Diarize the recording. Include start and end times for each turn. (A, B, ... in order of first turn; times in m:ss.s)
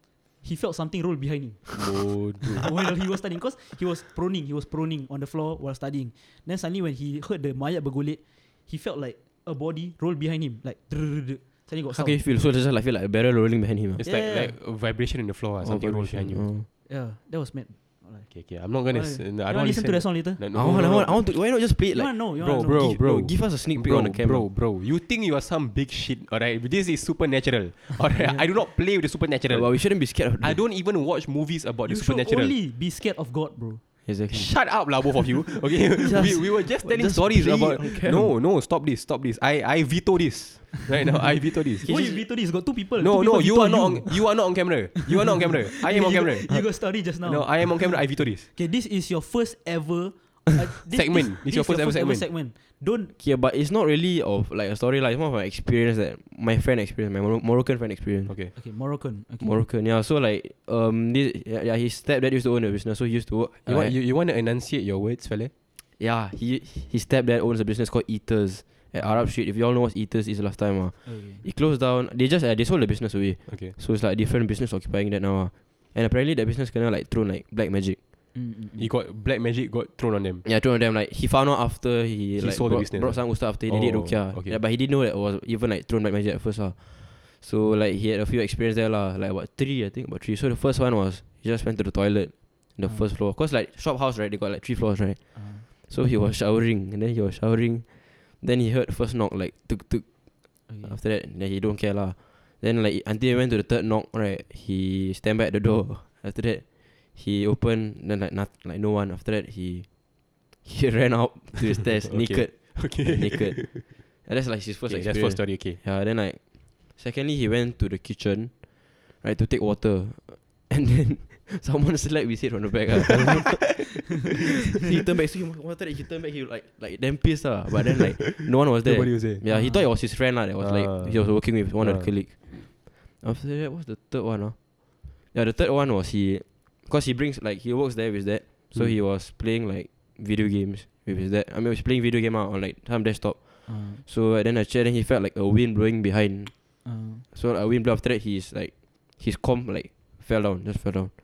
0:00.4-0:01.8 A
0:01.8-0:02.7 B
0:02.6-0:12.2 A
0:11.9-0:14.0 C
0:14.0-0:14.6 A
0:14.0-0:16.4 B
0:15.6-0:16.7 C
0:16.9-0:18.3 A
0:18.3-0:21.2 B
0:18.9-0:20.4 A
0:20.5-0:22.1 C
0:21.9-0:23.0 A
0:22.4-0:32.5 B
0:22.8-0:24.4 C
0:29.5-0:30.6 C
0:31.9-0:33.8 A
0:34.1-0:34.5 C
0:34.3-0:42.2 B
0:36.0-0:38.3 C
0:41.8-0:44.3 A
0:43.0-0:48.5 B
0:45.0-0:53.1 A
0:50.9-0:52.3 B
0:53.2-0:58.3 C
0:58.6-0:59.7 A
0:59.4-1:03.9 C
1:03.7-1:05.5 B
1:06.0-1:18.0 C
1:11.1-1:11.4 A
1:13.5-1:13.7 B
1:18.3-1:18.9 A
1:18.8-1:20.4 B
1:20.4-2:26.8 C
1:22.4-1:24.6 B
1:35.4-1:35.6 A
1:40.7-1:41.0 A
1:52.1-1:53.9 B
1:54.9-1:55.8 B
2:03.1-2:03.4 B
2:07.9-2:09.4 B
2:09.5-2:09.9 A
2:10.6-2:12.1 B
2:23.7-2:24.0 A
2:26.8-2:27.2 A
2:27.3-2:31.1 C